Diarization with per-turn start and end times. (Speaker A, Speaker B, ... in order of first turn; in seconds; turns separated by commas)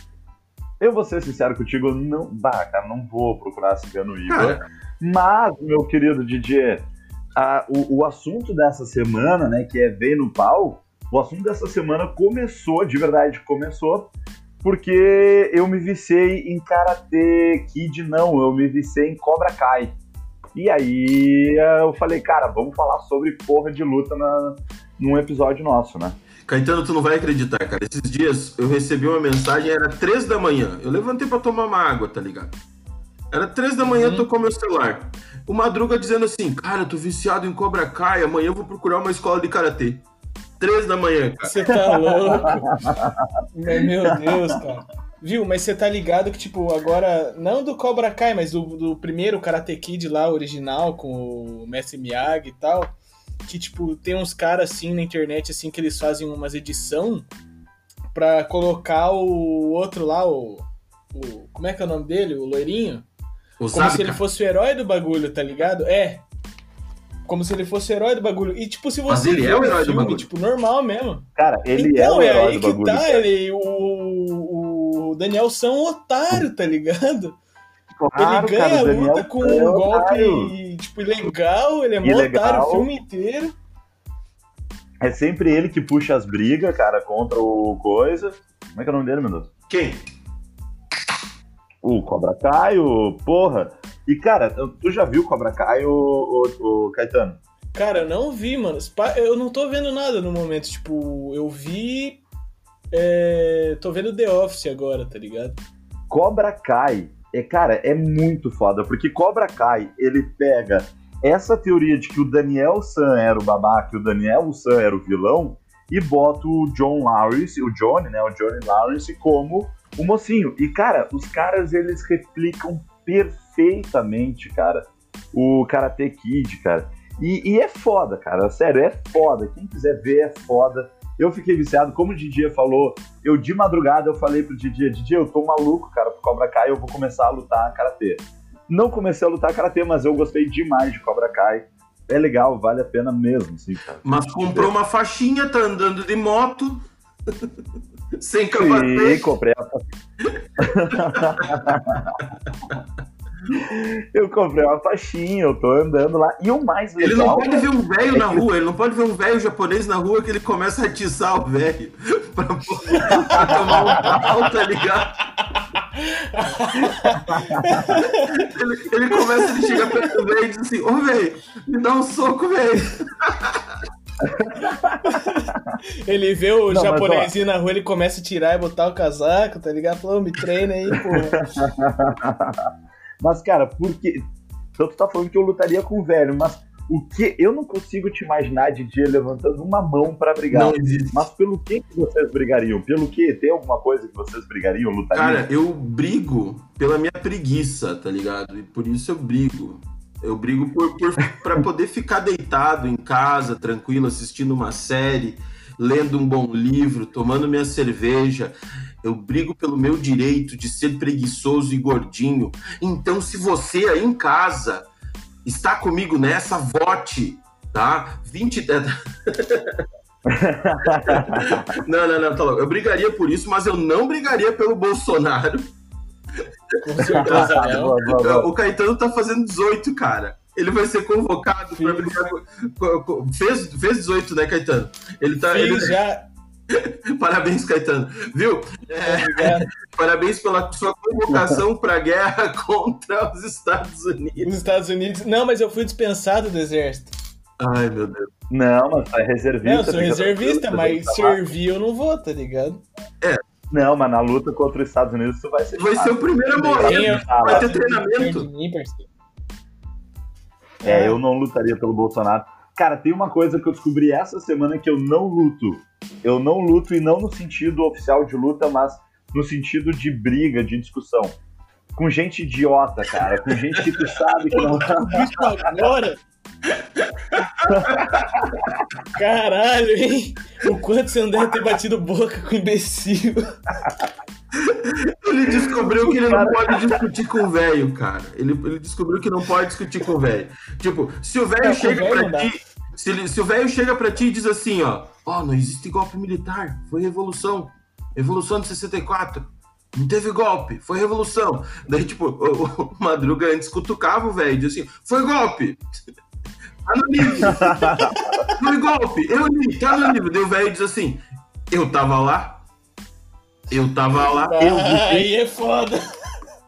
Speaker A: 0.8-14.1, Speaker B: 4.3-4.6, Speaker A: 14.6-20.0, Speaker A: 20.5-26.2, Speaker B: 26.4-32.5, Speaker B: 33.3-40.0, Speaker C: 33.8-34.3, Speaker B: 40.6-41.7, Speaker C: 41.4-42.7, Speaker A: 41.7-43.2, Speaker C: 43.5-52.9, Speaker A: 44.1-44.5, Speaker C: 53.4-57.3, Speaker C: 58.1-63.1, Speaker B: 63.6-64.2, Speaker C: 63.7-66.2, Speaker C: 67.2-77.4, Speaker B: 69.1-70.2, Speaker A: 71.3-73.2, Speaker A: 78.0-80.5, Speaker C: 78.2-83.5, Speaker A: 82.0-82.9, Speaker A: 85.0-89.5, Speaker B: 89.7-90.0, Speaker A: 91.8-97.4, Speaker C: 97.7-102.2, Speaker C: 102.9-105.6, Speaker A: 106.1-144.7, Speaker B: 144.0-146.8, Speaker B: 148.2-149.3, Speaker A: 148.5-149.8, Speaker B: 150.2-151.7, Speaker A: 150.6-152.2, Speaker A: 153.5-158.4, Speaker B: 157.0-165.1, Speaker C: 162.9-164.2, Speaker A: 163.3-163.6, Speaker C: 165.4-168.4, Speaker A: 167.3-167.9, Speaker B: 168.4-173.6, Speaker C: 169.2-170.0, Speaker A: 174.2-175.8, Speaker C: 175.0-175.5, Speaker C: 176.0-181.4, Speaker A: 176.7-177.3, Speaker A: 181.5-182.7, Speaker A: 183.2-184.2, Speaker A: 184.8-195.4, Speaker B: 190.5-191.3, Speaker B: 195.1-214.9, Speaker B: 215.4-219.8, Speaker A: 220.2-221.7, Speaker B: 220.9-225.7, Speaker C: 226.8-227.9, Speaker A: 227.0-228.5, Speaker B: 227.2-235.9, Speaker C: 231.8-232.2, Speaker C: 235.5-236.3, Speaker B: 236.7-244.5, Speaker C: 239.0-239.7, Speaker A: 241.3-241.6, Speaker C: 244.4-247.2, Speaker B: 247.6-248.3, Speaker A: 248.5-251.4, Speaker C: 249.6-252.8, Speaker A: 253.7-257.7, Speaker B: 255.8-258.5, Speaker C: 256.8-259.1, Speaker C: 260.8-261.2, Speaker A: 260.8-271.4, Speaker A: 271.9-275.2, Speaker C: 274.5-276.2, Speaker B: 276.7-278.1, Speaker A: 277.7-278.7, Speaker C: 279.1-283.5, Speaker B: 284.5-305.8, Speaker A: 285.6-287.0, Speaker C: 291.6-292.5, Speaker B: 306.9-307.9, Speaker A: 307.4-308.1, Speaker C: 307.8-308.6, Speaker B: 308.5-312.6, Speaker B: 313.7-314.8, Speaker C: 314.3-316.1, Speaker A: 314.6-315.3